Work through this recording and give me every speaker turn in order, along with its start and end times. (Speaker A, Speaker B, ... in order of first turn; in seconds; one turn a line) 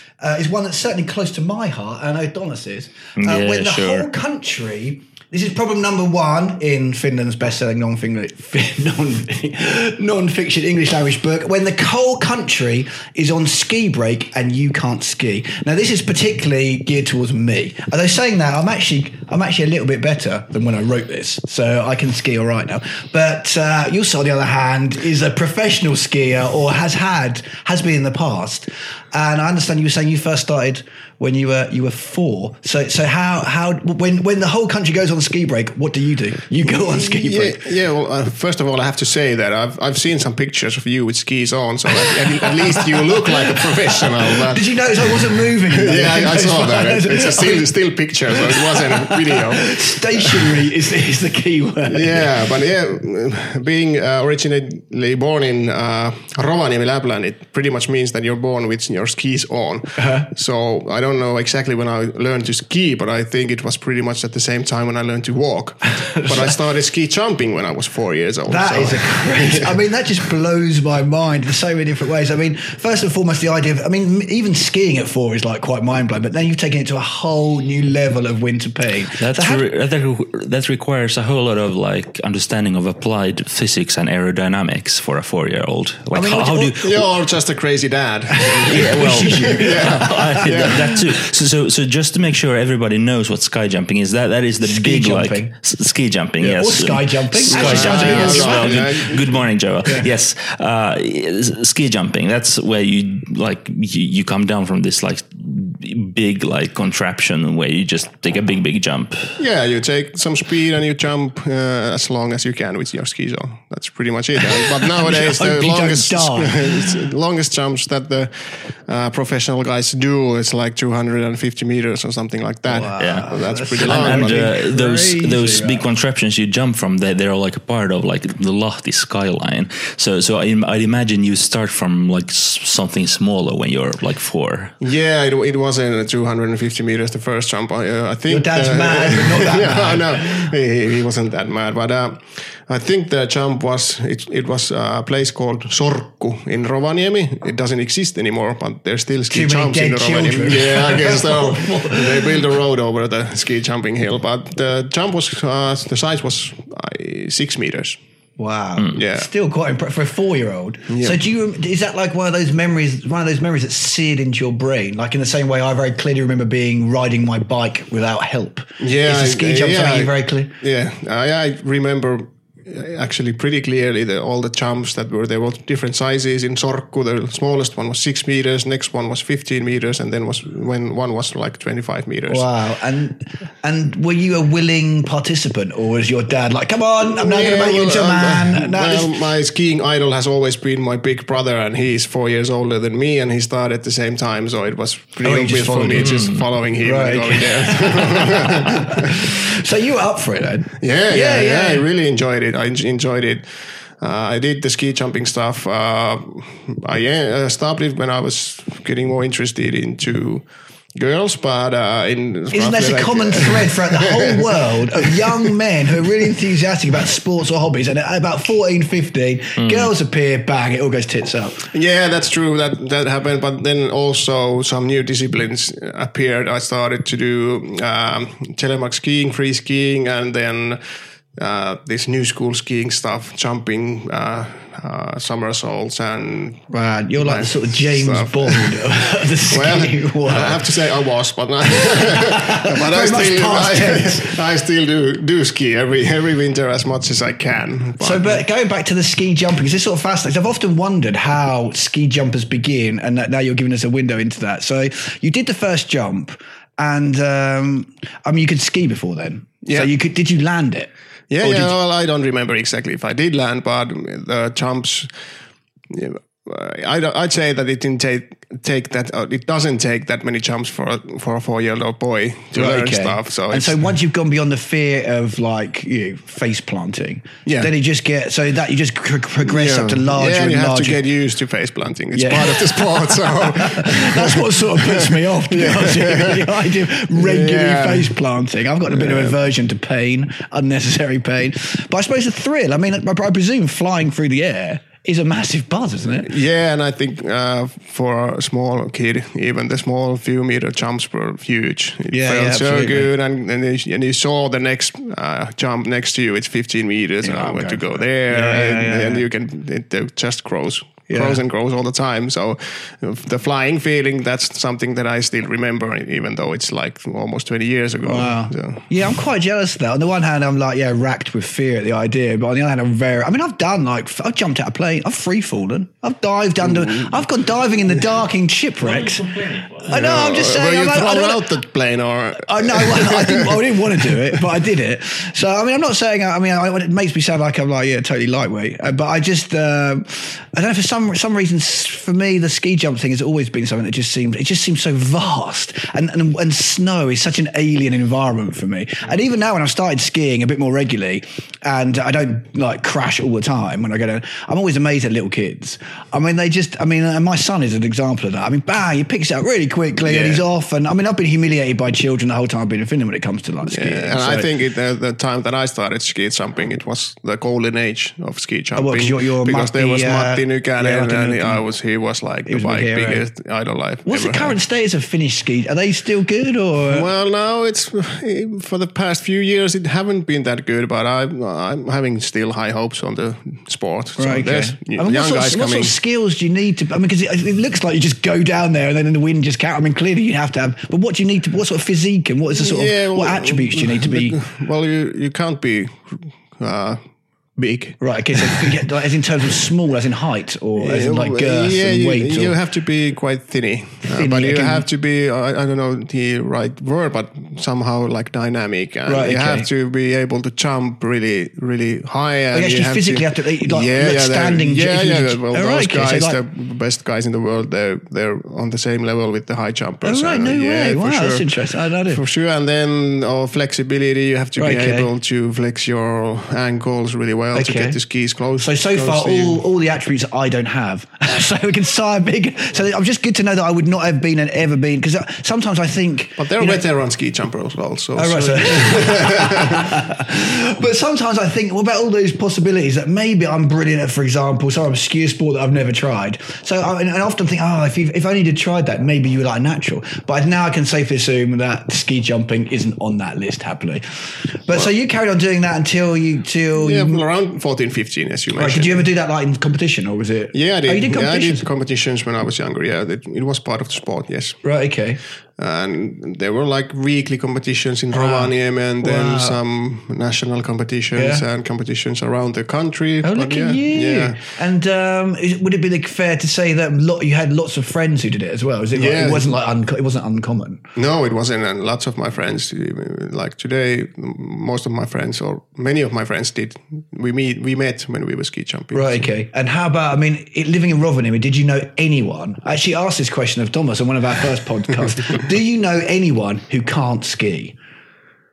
Speaker A: 0.2-37.7
Speaker B: 3.2-4.1
Speaker C: 36.7-50.6
Speaker A: 42.1-47.7
Speaker A: 48.3-52.5
Speaker C: 51.9-69.8
Speaker A: 60.0-60.3
Speaker A: 66.1-66.4
Speaker A: 68.5-79.7
Speaker B: 79.2-87.0
Speaker A: 86.1-87.0
Speaker C: 86.8-91.0
Speaker A: 88.3-91.0
Speaker B: 88.7-109.4
Speaker A: 94.6-95.5
Speaker A: 96.4-99.1
Speaker C: 97.5-99.4
Speaker C: 109.4-124.5
Speaker A: 114.6-117.0
Speaker A: 122.7-125.9
Speaker B: 123.0-134.7
Speaker C: 134.8-158.0
Speaker A: 138.3-140.5
Speaker A: 149.3-152.4
Speaker A: 158.4-170.6
Speaker C: 158.9-159.3
Speaker C: 160.9-161.2
Speaker C: 168.8-182.5
Speaker A: 182.3-189.1
Speaker C: 187.0-199.4
Speaker A: 195.2-196.2
Speaker B: 195.9-196.5
Speaker A: 196.8-201.8
Speaker C: 200.8-215.5
Speaker A: 212.5-221.7
Speaker C: 221.7-230.8
Speaker C: 231.4-248.4
Speaker A: 236.7-240.7
Speaker A: 241.9-244.3
Speaker A: 248.0-261.8
Speaker C: 259.6-259.9
Speaker C: 261.3-265.1
Speaker C: 265.9-273.8
Speaker A: 272.5-281.0
Speaker C: 277.4-277.7
Speaker C: 279.4-288.2
Speaker A: 282.1-296.3
Speaker C: 288.9-289.4
Speaker C: 296.2-318.9
Speaker A: 302.1-303.1
Speaker A: 307.2-309.3
Speaker A: 311.1-311.4
Speaker A: 318.0-329.3
Speaker C: 326.6-327.2
Speaker B: 328.8-329.9
Speaker A: 329.9-331.6
Speaker C: 329.9-334.4
Speaker A: 332.4-364.5
Speaker C: 360.0-360.4
Speaker C: 363.7-374.6
Speaker A: 368.8-371.6
Speaker A: 372.5-373.3
Speaker A: 374.1-377.1
Speaker C: 376.9-386.0
Speaker A: 384.2-394.4
Speaker C: 392.5-397.0
Speaker C: 397.6-398.8
Speaker A: 398.0-402.6
Speaker C: 400.8-421.6
Speaker A: 404.1-404.9
Speaker A: 409.1-409.7
Speaker A: 412.5-416.4
Speaker A: 420.0-422.2
Speaker C: 422.1-429.6
Speaker A: 424.6-425.1
Speaker A: 427.5-428.0
Speaker A: 428.6-436.8
Speaker C: 436.4-440.0
Speaker A: 438.2-454.0
Speaker A: 454.6-457.2
Speaker C: 456.8-459.1
Speaker A: 458.5-461.6
Speaker C: 460.5-464.6
Speaker A: 464.6-465.2
Speaker C: 465.6-474.4
Speaker A: 468.1-469.6
Speaker A: 471.1-471.4
Speaker A: 473.2-480.8
Speaker C: 478.9-479.5
Speaker C: 481.0-489.3
Speaker A: 488.9-497.8